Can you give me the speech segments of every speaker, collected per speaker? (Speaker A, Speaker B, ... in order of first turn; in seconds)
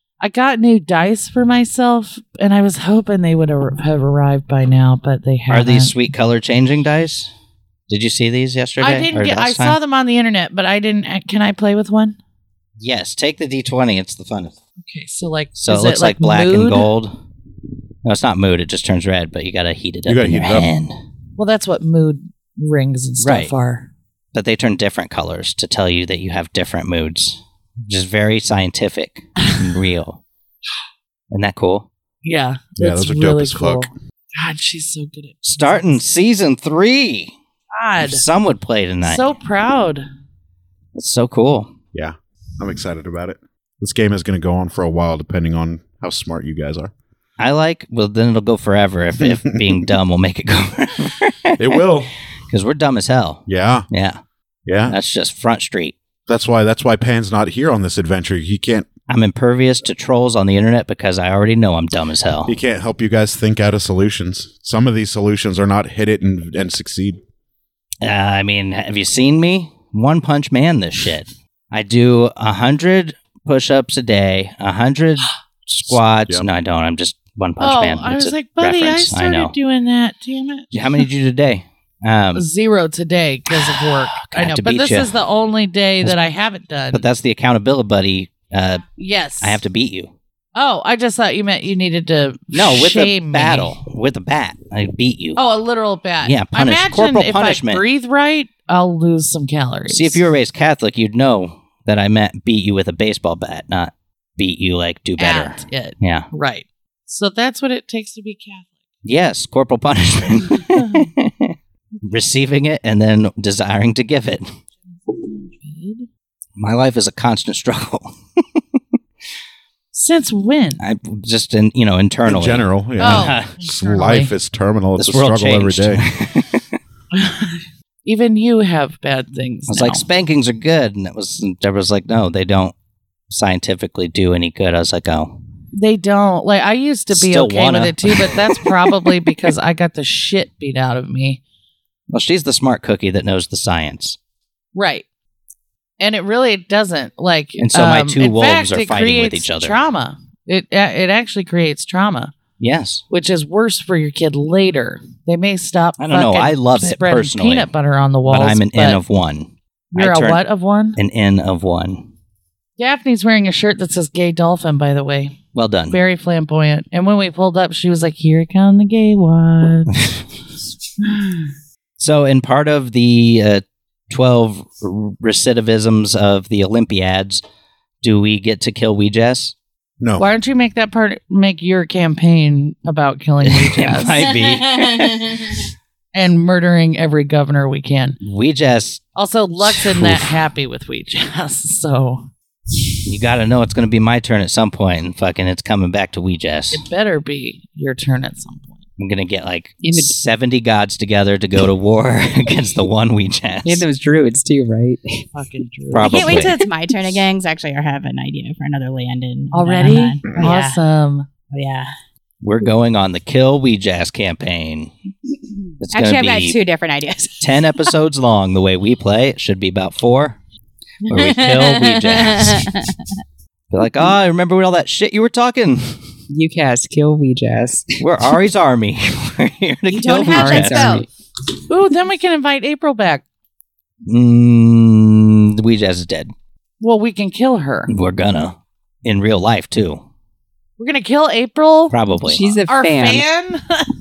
Speaker A: 0.2-5.9, 8.8-12.2, 14.8-16.9, 21.4-23.9, 32.2-36.0, 37.7-38.2, 39.0-40.0, 77.6-80.7, 82.3-87.0, 89.0-89.6, 90.5-93.7, 95.3-100.2, 105.2-108.7, 110.7-111.1, 115.1-116.1, 119.9-120.8, 123.0-124.3, 127.1-130.0, 135.7-141.4, 144.7-145.1, 146.0-152.3, 153.1-159.0, 159.9-161.0, 162.8-165.4, 165.9-170.1, 171.0-171.5, 180.2-184.3, 186.1-188.2, 189.2-192.3, 196.7-198.8, 205.3-206.4, 209.5-211.3, 231.7-233.2, 236.8-237.9, 240.8-241.9, 242.7-243.9
Speaker B: 5.5-7.3, 7.9-9.8, 12.8-14.6, 15.6-17.1, 18.0-21.0, 23.2-23.5, 24.3-30.2, 31.3-31.9, 35.4-37.3, 38.0-39.3, 40.9-41.7, 47.4-51.8, 52.5-54.2, 54.9-56.0, 59.1-62.5, 68.0-79.5, 80.7-82.5, 83.5-85.1, 86.9-88.8, 89.4-90.1, 92.5-95.4, 96.2-97.8, 99.9-106.3, 109.0-114.5, 116.6-118.6, 120.8-123.5, 125.0-126.8, 129.7-132.7, 133.3-135.4, 137.1-139.1, 142.1-144.2, 147.6-149.8, 152.6-153.0, 156.0-157.7, 158.3-160.4, 160.9-162.1, 165.5-166.0, 172.0-177.4, 178.0-179.5, 183.4-185.6, 188.2-189.0, 189.7-190.2, 193.0-196.8, 199.0-203.8, 205.9-206.6, 212.4-214.9, 215.8-216.6, 217.4-220.4, 221.1-222.6, 223.7-226.1, 228.0-231.0, 234.1-236.3, 237.9-240.0, 241.9-242.4
Speaker C: 20.1-20.7, 32.8-33.9, 41.9-46.9, 51.6-52.1, 53.5-53.9, 54.6-55.0, 56.3-58.9, 62.5-67.2, 75.9-76.5, 122.3-126.0, 180.0-180.3
Speaker D: 199.8-200.2, 203.6-205.3, 226.3-228.1, 230.3-231.1, 242.2-243.2
Speaker E: 206.0-210.8, 211.5-211.9, 215.9-217.9, 221.1-222.9, 229.9-231.0